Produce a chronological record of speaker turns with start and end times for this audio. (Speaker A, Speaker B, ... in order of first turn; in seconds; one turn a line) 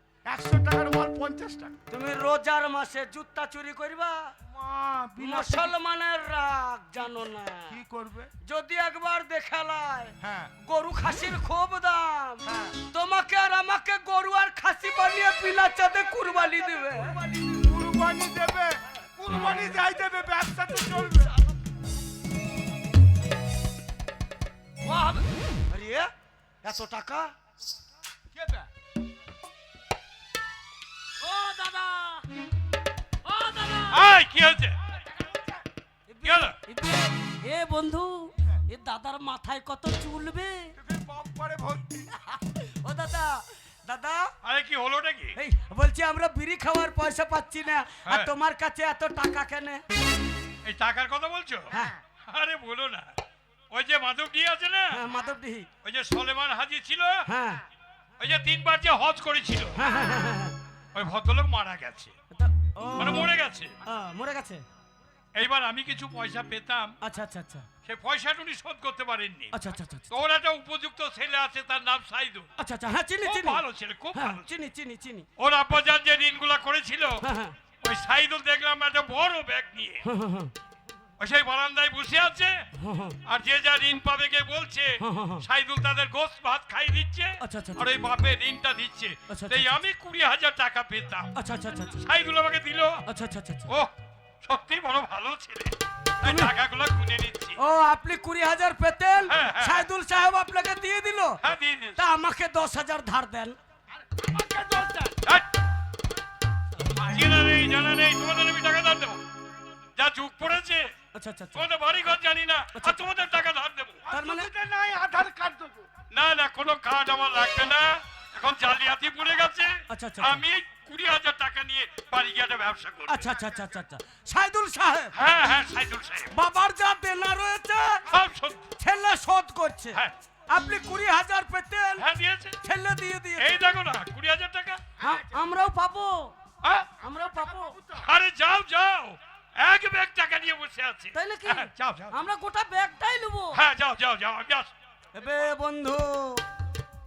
Speaker A: 0.3-1.8
Speaker B: 1.9-4.3
Speaker A: 4.4-5.8
Speaker B: 5.2-7.8
Speaker A: 7.7-8.3
Speaker B: 8.4-17.2
Speaker A: 10.2-10.5
Speaker A: 12.4-12.8
Speaker A: 16.2-21.3
Speaker B: 24.8-26.1
Speaker B: 26.6-27.3
Speaker A: 28.3-28.7
Speaker B: 31.2-32.3
Speaker B: 33.2-34.1
Speaker C: 33.9-34.8
Speaker A: 34.9-35.6
Speaker B: 36.1-40.8
Speaker C: 36.2-36.6
Speaker A: 40.8-42.4
Speaker B: 42.5-44.3
Speaker C: 44.4-45.4
Speaker B: 45.4-49.8
Speaker C: 48.1-48.3
Speaker C: 50.6-51.7
Speaker B: 51.7-52.0
Speaker C: 52.3-53.2
Speaker C: 53.7-55.0
Speaker B: 54.9-55.7
Speaker C: 55.8-57.2
Speaker B: 57.3-57.6
Speaker C: 58.2-59.8
Speaker B: 59.8-60.6
Speaker C: 61.0-62.1
Speaker B: 62.3-63.3
Speaker C: 63.0-63.8
Speaker B: 63.8-64.6
Speaker C: 65.3-67.0
Speaker B: 67.0-67.7
Speaker C: 67.8-69.5
Speaker B: 69.5-70.1
Speaker C: 70.1-72.5
Speaker B: 72.6-75.3
Speaker C: 73.2-74.4
Speaker C: 75.4-77.2
Speaker B: 77.2-77.5
Speaker C: 77.8-80.1
Speaker B: 80.0-80.5
Speaker C: 81.2-82.7
Speaker B: 82.8-83.2
Speaker C: 83.2-91.3
Speaker B: 85.0-85.4
Speaker B: 87.4-87.9
Speaker B: 89.3-89.7
Speaker B: 91.3-92.0
Speaker C: 92.0-93.0
Speaker B: 93.0-93.7
Speaker C: 93.7-97.6
Speaker B: 96.2-96.5
Speaker B: 97.6-101.4
Speaker C: 99.3-99.9
Speaker C: 101.4-102.0
Speaker B: 102.0-103.6
Speaker A: 103.9-105.2
Speaker C: 107.0-109.3
Speaker C: 110.0-110.9
Speaker B: 111.1-111.7
Speaker C: 111.6-114.0
Speaker B: 112.7-113.1
Speaker A: 114.0-115.9
Speaker B: 114.1-114.5
Speaker C: 116.1-123.3
Speaker B: 119.9-120.4
Speaker B: 123.1-125.2
Speaker C: 125.2-126.3
Speaker B: 126.3-128.1
Speaker C: 128.1-128.7
Speaker B: 128.8-132.1
Speaker C: 132.0-132.6
Speaker B: 132.6-133.7
Speaker C: 133.4-134.8
Speaker B: 135.0-136.4
Speaker A: 135.0-135.4
Speaker C: 136.6-136.9
Speaker A: 137.0-138.1
Speaker B: 137.0-137.8
Speaker C: 138.0-142.2
Speaker B: 141.1-143.6
Speaker C: 143.6-144.7
Speaker B: 145.2-146.4